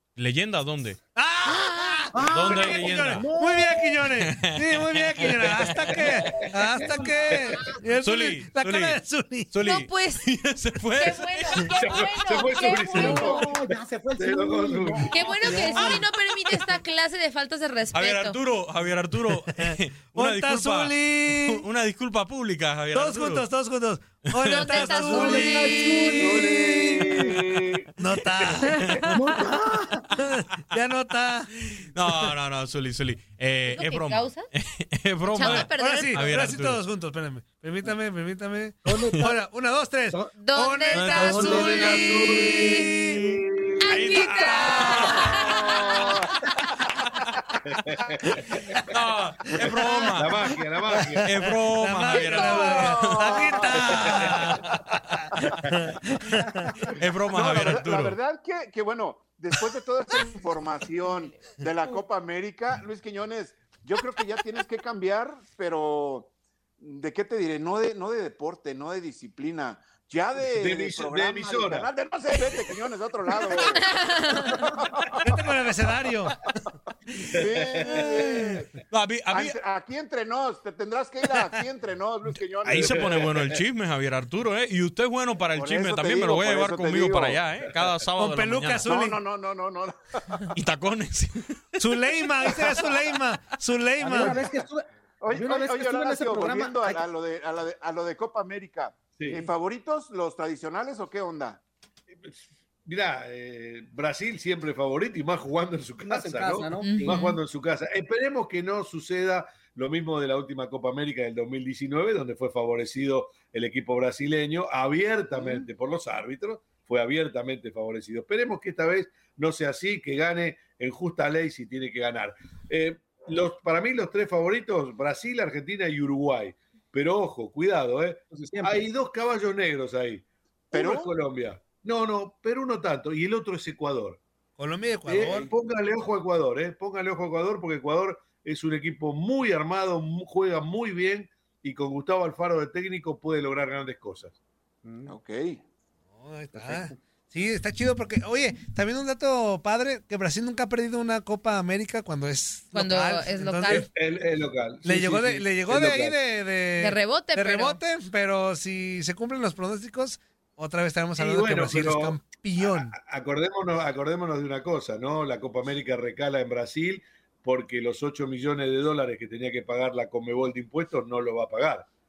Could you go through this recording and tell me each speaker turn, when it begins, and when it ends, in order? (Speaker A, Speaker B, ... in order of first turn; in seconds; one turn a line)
Speaker A: 0.2-1.0
Speaker B: 1.1-9.5
Speaker C: 1.5-2.0
Speaker D: 2.1-3.8
Speaker A: 2.3-3.3
Speaker A: 4.2-6.0
Speaker A: 8.0-9.0
Speaker A: 9.5-11.8
Speaker C: 9.6-10.3
Speaker C: 10.9-13.4
Speaker E: 11.8-15.9
Speaker D: 12.7-16.1
Speaker C: 15.1-18.4
Speaker A: 17.9-23.5
Speaker B: 19.6-21.6
Speaker B: 22.9-26.6
Speaker A: 24.3-25.4
Speaker C: 24.4-26.4
Speaker D: 24.9-27.2
Speaker E: 26.2-27.9
Speaker B: 28.0-28.8
Speaker E: 28.4-28.9
Speaker D: 29.1-30.1
Speaker B: 30.1-32.3
Speaker A: 31.9-36.8
Speaker C: 33.7-34.5
Speaker C: 35.3-36.2
Speaker B: 35.4-43.2
Speaker D: 38.9-39.4
Speaker C: 40.4-42.9
Speaker A: 40.9-42.0
Speaker D: 41.1-41.6
Speaker E: 41.3-44.0
Speaker A: 42.8-43.4
Speaker C: 43.8-45.7
Speaker A: 43.9-45.3
Speaker B: 44.0-45.5
Speaker F: 45.2-46.3
Speaker E: 47.7-48.4
Speaker A: 48.9-50.4
Speaker E: 50.1-51.3
Speaker B: 51.0-56.7
Speaker A: 51.2-54.6
Speaker F: 52.1-54.3
Speaker E: 53.9-54.2
Speaker A: 56.9-58.2
Speaker F: 57.3-75.4
Speaker E: 70.6-71.9
Speaker C: 73.9-74.5
Speaker B: 75.2-76.4
Speaker F: 77.3-78.7
Speaker E: 77.4-78.1
Speaker A: 78.9-79.6
Speaker F: 79.3-83.3
Speaker A: 82.7-88.9
Speaker E: 82.7-83.6
Speaker F: 85.5-87.4
Speaker B: 88.2-89.2
Speaker F: 88.8-90.5
Speaker A: 90.5-91.6
Speaker B: 91.8-94.4
Speaker D: 94.0-97.0
Speaker F: 95.2-101.6
Speaker E: 99.2-99.5
Speaker E: 102.2-134.2
Speaker D: 106.0-107.2
Speaker C: 106.8-107.4
Speaker D: 115.3-115.7
Speaker D: 128.3-128.8
Speaker F: 130.7-131.1
Speaker B: 134.6-135.5
Speaker E: 135.1-144.3
Speaker D: 144.8-145.1
Speaker F: 145.1-145.6
Speaker B: 146.2-153.9
Speaker D: 146.6-147.0
Speaker C: 152.8-153.9
Speaker E: 153.7-156.2
Speaker B: 154.8-162.9
Speaker C: 156.8-157.8
Speaker E: 161.2-171.9